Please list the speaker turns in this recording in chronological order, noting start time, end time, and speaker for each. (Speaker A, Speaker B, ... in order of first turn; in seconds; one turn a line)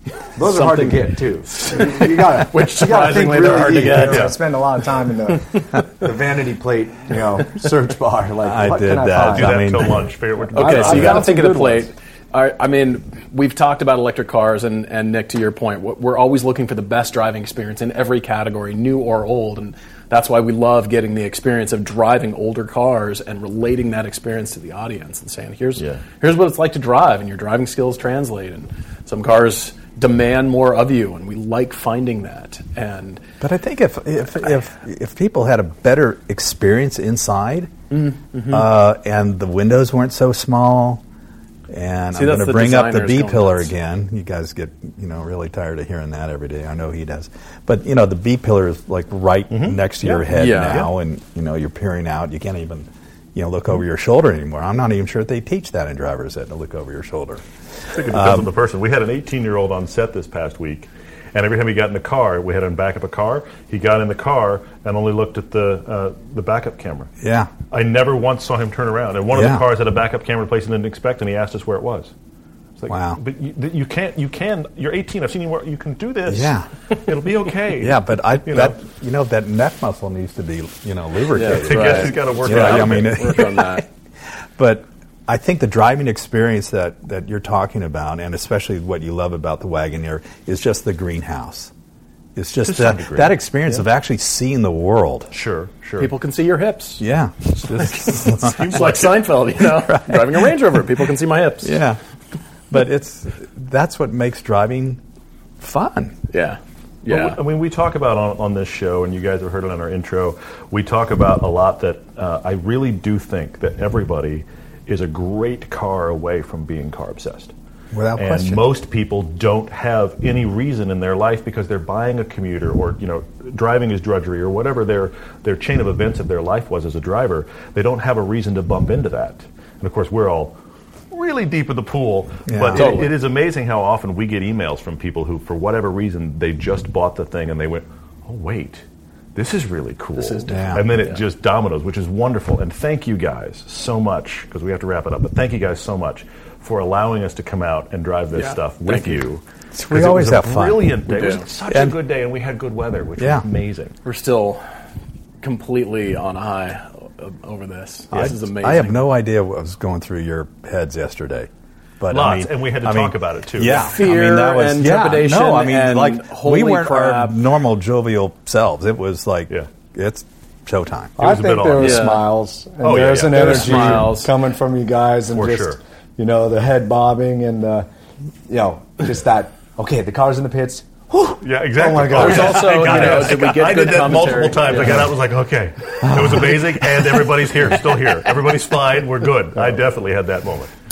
Speaker A: 0.3-11.9
Speaker B: 0.4-4.3
Speaker C: 3.9-4.3
Speaker D: 8.4-10.1
Speaker C: 9.2-11.3
Speaker B: 10.5-33.2
Speaker D: 33.4-37.7
Speaker B: 37.9-38.6
Speaker D: 38.5-41.0
Speaker D: 41.7-57.4
Speaker B: 42.1-43.7
Speaker C: 49.5-49.8
Speaker B: 50.0-50.9
Speaker C: 57.9-67.1
Speaker D: 58.1-58.5
Speaker D: 67.2-67.5
Speaker C: 67.7-72.1
Speaker D: 69.3-69.6
Speaker C: 72.8-78.8
Speaker D: 72.9-73.2
Speaker D: 76.3-76.7
Speaker D: 77.8-83.8
Speaker B: 81.3-83.8
Speaker C: 81.4-83.3
Speaker D: 84.6-91.7
Speaker D: 92.3-95.3
Speaker C: 92.6-93.3
Speaker C: 95.3-96.1
Speaker B: 96.0-97.0
Speaker D: 97.0-99.0
Speaker B: 97.5-101.8
Speaker D: 99.8-100.5
Speaker D: 101.6-102.0
Speaker D: 102.7-105.0
Speaker D: 105.6-106.2
Speaker B: 106.3-107.4
Speaker C: 107.1-117.5
Speaker D: 117.9-118.6
Speaker C: 118.2-130.6
Speaker C: 131.1-153.9
Speaker D: 132.5-132.9
Speaker B: 132.7-133.1
Speaker B: 140.2-141.2
Speaker D: 140.5-140.8
Speaker B: 148.3-149.2
Speaker D: 149.7-151.0
Speaker B: 151.1-151.4
Speaker D: 151.7-151.9
Speaker D: 153.2-153.4
Speaker B: 154.0-154.6
Speaker B: 155.4-159.0
Speaker D: 158.1-161.5
Speaker D: 162.0-171.1
Speaker C: 162.1-163.9
Speaker B: 163.7-167.4
Speaker A: 171.2-177.9
Speaker C: 171.2-172.2
Speaker B: 171.8-172.2
Speaker C: 172.8-174.2
Speaker B: 173.3-174.3
Speaker C: 175.3-175.8
Speaker A: 178.5-183.2
Speaker C: 181.4-190.7
Speaker B: 182.1-185.1
Speaker D: 186.1-186.4